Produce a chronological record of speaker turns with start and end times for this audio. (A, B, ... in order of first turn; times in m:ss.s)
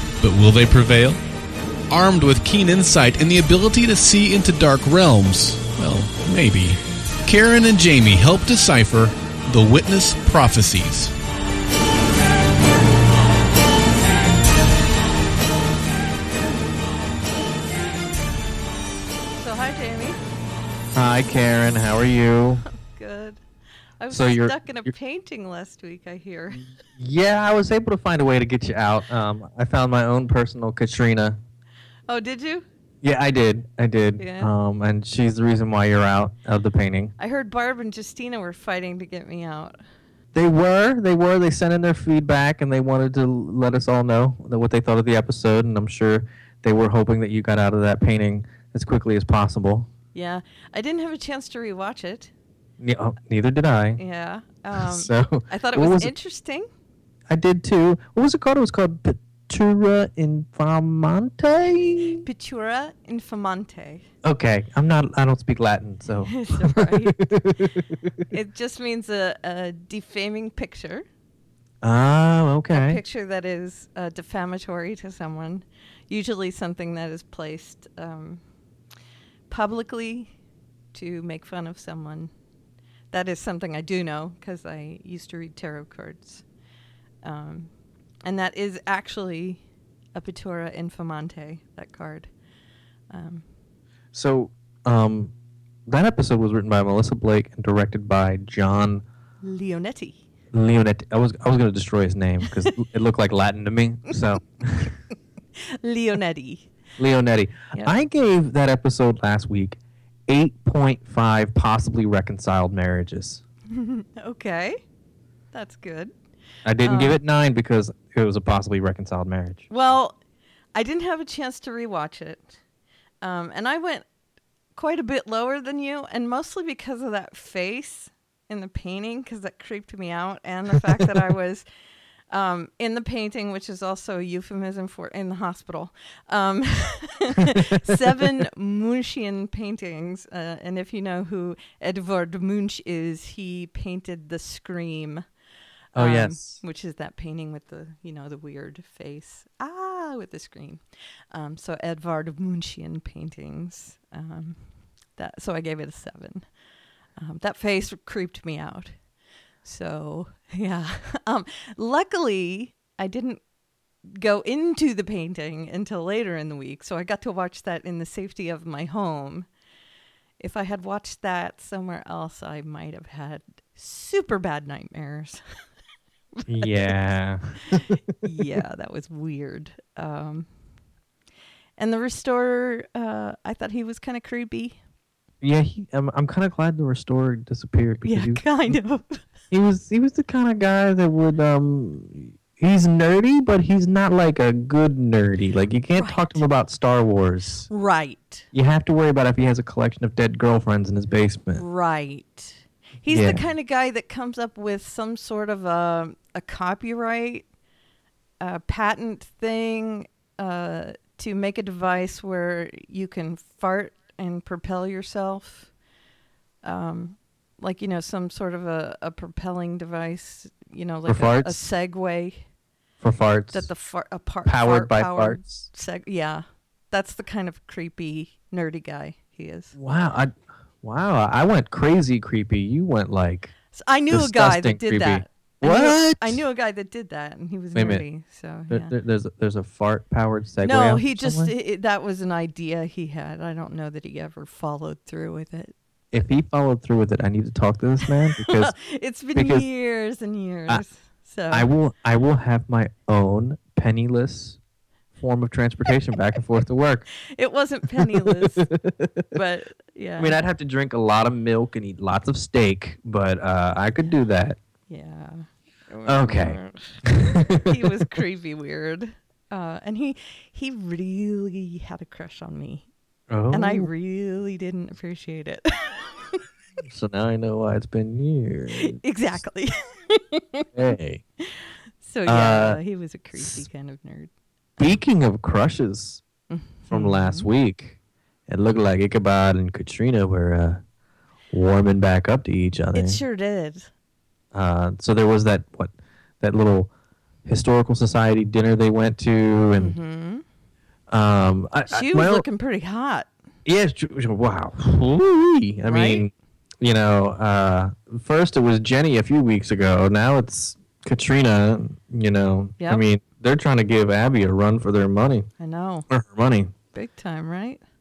0:00.2-0:01.2 A
0:01.9-0:11.1 A
0:19.4-0:20.2 B
0:20.9-0:22.6 C
0:22.7-0:23.4 B
0:24.0-0:26.6 B
0:24.1-0:24.9 C
0:26.6-0:31.4 C
0:32.1-0:32.6 B
0:33.0-0:37.1 C
0:34.2-0:34.5 B
0:37.2-0:39.7 B
0:40.3-0:49.9 C
0:50.1-0:52.3 B
0:52.8-0:54.0 C
0:54.0-0:56.7 B
0:54.7-0:56.1 C
0:57.3-1:02.2 C
1:02.2-1:04.0 B
1:04.2-1:08.2 C
1:06.3-1:07.2 B
1:08.3-1:11.0 B
1:11.8-1:13.0 C
1:12.7-1:18.4 B
1:19.5-1:20.3 B
1:20.9-1:22.3 B
1:23.1-1:26.4 B
1:27.2-1:27.7 B
1:28.2-1:29.6 B
1:30.1-1:32.3 B
1:33.1-1:33.4 B
1:34.1-1:35.3 C
1:35.8-1:39.0 C
1:39.4-1:40.2 B
1:40.5-1:44.9 C
1:45.8-1:46.7 B
1:47.0-1:53.4 C
1:53.7-1:54.8 B
1:55.5-1:56.1 B
1:56.6-1:59.7 C
1:56.8-1:57.2 B
1:59.7-2:00.2 B
2:00.7-2:02.6 B
2:03.2-2:04.0 B
2:04.8-2:11.6 B
2:12.3-2:25.2 B
2:25.9-2:30.8 B
2:25.9-2:26.6 C
2:31.3-2:34.6 B
2:35.2-2:36.4 B
2:37.2-2:38.9 B
2:39.6-2:43.4 B
2:44.1-2:49.5 B
2:50.4-2:55.4 B
2:56.4-2:56.8 B
2:56.5-2:58.2 C
2:57.7-3:00.5 B
3:01.8-3:04.8 B
3:05.4-3:08.8 C
3:08.0-3:09.2 B
3:09.5-3:17.7 C
3:16.0-3:16.4 B
3:17.7-3:18.4 B
3:18.5-3:21.6 C
3:21.5-3:27.4 B
3:23.1-3:23.4 C
3:28.4-3:35.7 B
3:36.6-3:42.4 B
3:41.1-3:41.6 C
3:43.0-3:43.7 C
3:43.5-3:49.7 B
3:44.4-3:45.7 C
3:49.8-3:53.5 C
3:53.7-3:58.9 B
3:54.1-3:56.4 C
3:57.7-3:58.0 C
3:58.7-4:01.5 C
4:00.6-4:05.7 B
4:06.1-4:08.8 C
4:08.2-4:11.7 B
4:09.3-4:09.6 C
4:11.5-4:14.6 C
4:15.1-4:17.1 C
4:17.3-4:18.7 B
4:18.0-4:19.2 C
4:19.3-4:20.4 B
4:20.2-4:24.6 C
4:24.9-4:32.9 B
4:26.0-4:28.0 C
4:33.3-4:33.9 C
4:33.5-4:36.4 B
4:36.8-4:39.0 C
4:38.7-4:40.7 B
4:40.7-4:41.2 C
4:41.4-4:44.3 B
4:42.2-4:42.8 C
4:43.3-4:43.6 C
4:44.8-4:46.2 C
4:46.5-4:47.5 B
4:46.9-4:48.0 C
4:48.5-4:50.8 C
4:51.5-4:53.2 C
4:52.9-4:53.9 B
4:54.5-4:56.9 C
4:57.4-5:00.0 C
4:59.7-5:00.4 B
5:01.1-5:02.4 C
5:01.9-5:03.3 B
5:03.6-5:15.5 C
5:05.8-5:06.3 B
5:12.8-5:13.0 B
5:15.6-5:16.1 B
5:16.1-5:16.7 C
5:16.9-5:17.8 B